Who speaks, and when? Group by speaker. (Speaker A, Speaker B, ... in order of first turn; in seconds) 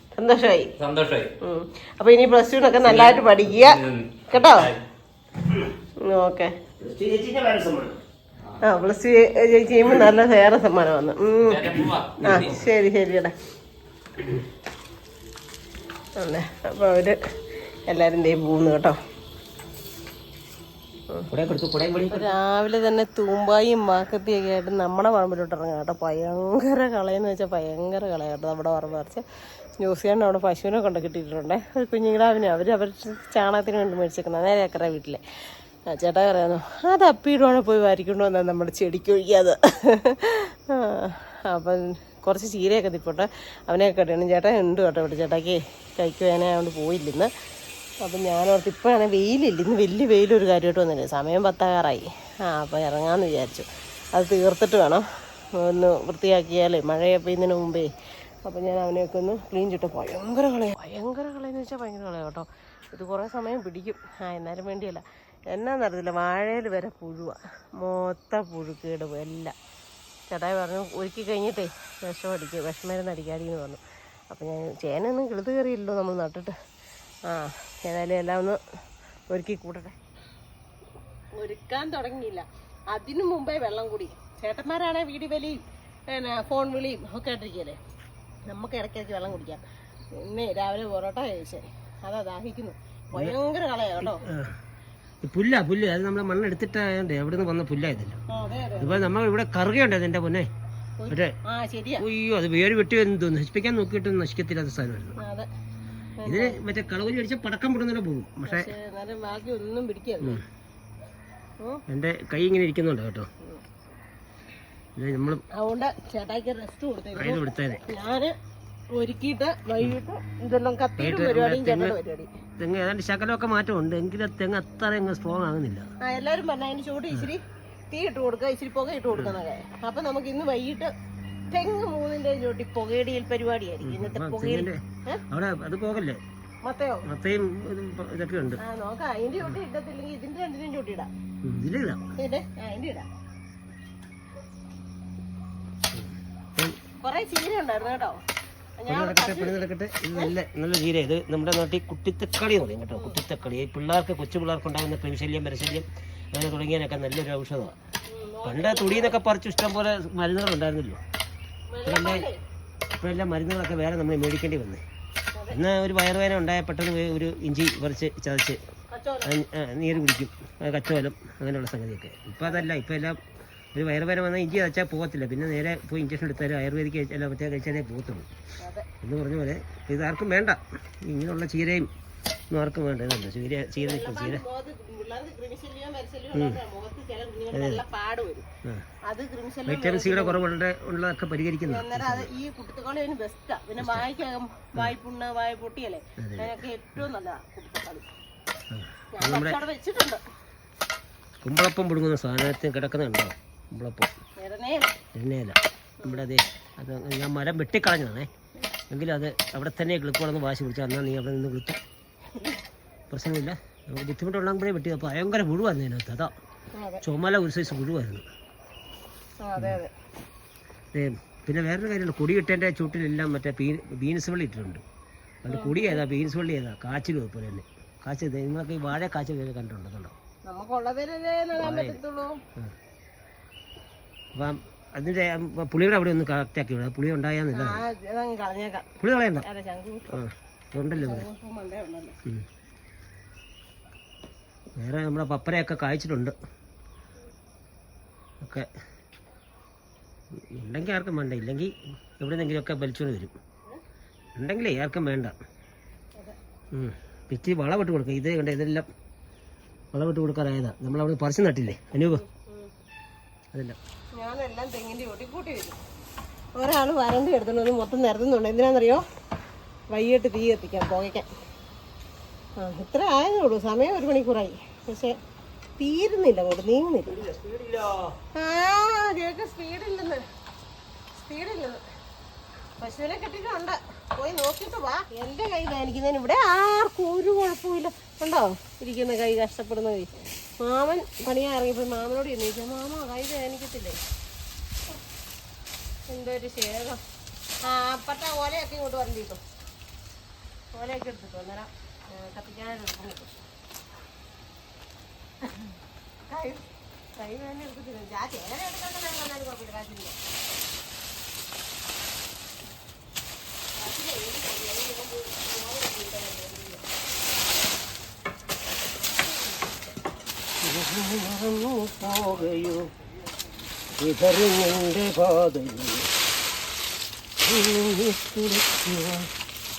Speaker A: 0.2-0.7, 1.4-3.8, 4.3-4.7, 6.0-6.5, 8.6-13.3, 16.2-17.2, 17.9-19.0, 22.1-29.2, 29.8-35.2, 35.9-47.3, 48.0-55.0, 55.6-57.9, 58.5-69.5, 70.3-76.5, 77.3-78.6, 79.3-79.9, 81.3-87.8, 88.5-89.6, 90.1-94.2, 98.3-99.0, 101.0-102.0, 105.2-105.5, 106.2-106.5, 108.4-110.4, 115.5-118.3, 118.9-122.3, 126.0-130.9, 131.5-135.2, 136.6-137.0, 138.6-141.1, 142.2-143.1, 147.0-148.2, 148.8-149.6, 158.1-159.1, 161.7-162.4, 165.3-165.6, 168.9-169.3, 178.6-178.8, 183.8-188.4, 189.0-190.4, 191.6-198.1, 199.1-200.2, 204.4-204.9, 216.7-217.0, 219.4-219.9, 225.5-226.0, 230.4-232.4, 237.5-238.9, 239.4-240.2, 241.0-242.2, 262.1-262.7, 264.2-265.8, 266.6-269.0, 269.9-271.2, 272.6-275.2, 275.8-277.2, 278.3-280.2, 281.2-281.8, 282.8-294.0, 296.1-297.0, 297.6-299.4, 300.7-303.4, 306.3-306.6, 307.2-310.1, 313.8-316.8
Speaker B: 0.8-1.3, 3.5-4.8, 11.4-12.6
Speaker C: 2.8-3.2, 6.8-8.0, 21.3-22.3, 94.0-94.5, 95.2-98.2, 98.8-100.5, 102.0-105.2, 106.2-108.7, 111.9-113.3, 115.0-115.4, 117.2-117.8, 121.0-122.0, 122.6-125.9, 133.8-136.2, 137.1-138.6, 141.4-142.0, 145.9-146.8, 148.9-157.8, 158.4-161.0, 161.8-162.2, 163.0-164.8, 165.5-168.6, 169.2-173.2, 173.7-178.3, 179.0-181.9, 182.5-184.4, 186.3-186.6, 187.5-187.8, 189.7-192.3, 193.8-194.0, 196.2-197.0, 198.7-199.6, 201.4-204.1, 205.1-208.3, 208.9-211.8, 213.1-216.3, 217.0-218.2, 220.9-224.8, 225.4-230.2, 231.5-232.0, 234.3-237.8, 239.0-239.4, 240.1-241.3, 244.8-246.3, 248.4-248.7, 250.5-253.3, 254.4-255.3, 256.7-258.9, 259.9-262.2, 263.5-263.8, 277.1-278.1, 320.6-322.9, 324.0-326.1, 327.4-329.3